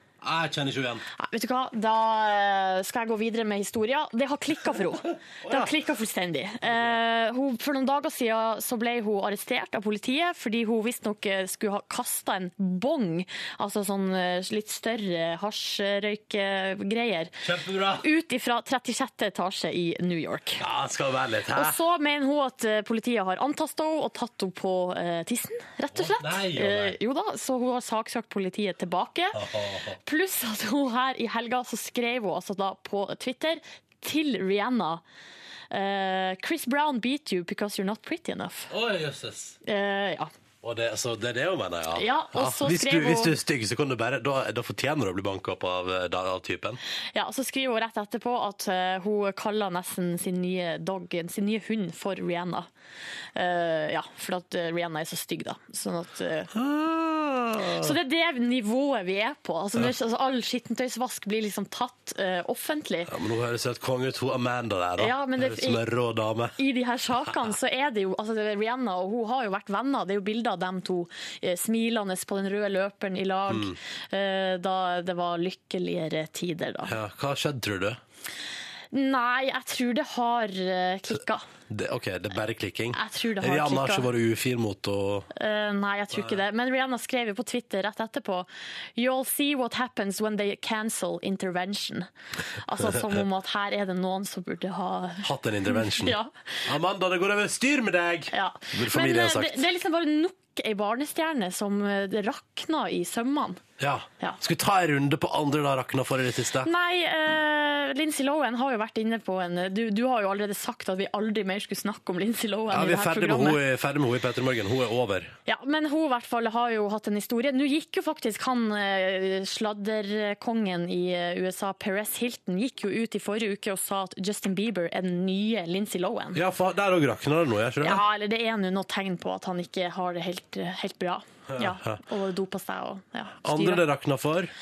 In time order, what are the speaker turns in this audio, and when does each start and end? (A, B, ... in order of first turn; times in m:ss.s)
0:00.2-0:01.0 A
0:01.2-0:17.4 B
0:05.4-0:05.7 A
0:06.7-0:06.9 A
0:17.4-0:18.1 A
0:18.0-0:20.6 B
0:20.6-0:21.8 A
0:21.5-0:29.4 B
0:26.0-0:27.0 A
0:29.4-0:30.0 A
0:30.0-0:35.0 B
0:35.7-0:38.7 B
0:38.7-0:39.6 A
0:39.6-0:40.3 B
0:40.6-0:46.8 A
0:42.0-0:43.4 B
0:47.1-0:52.7 B
0:53.4-0:56.5 B
0:56.5-0:58.0 A
0:57.6-1:03.1 B
1:03.1-1:06.6 A
1:05.0-1:05.8 B
1:06.6-1:16.9 B
1:13.5-1:13.8 A
1:16.9-1:18.0 A
1:18.9-1:21.4 B
1:21.7-1:25.3 A
1:22.9-1:24.1 B
1:25.3-1:32.1 B
1:32.6-1:36.3 B
1:35.2-1:36.2 A
1:36.7-1:39.6 A
1:38.3-1:43.6 B
1:43.8-1:46.7 A
1:46.6-1:53.6 B
1:52.7-1:55.3 A
1:55.5-2:06.4 B
2:06.4-2:08.0 A
2:07.8-2:13.8 B
2:11.5-2:12.0 A
2:13.4-2:14.5 A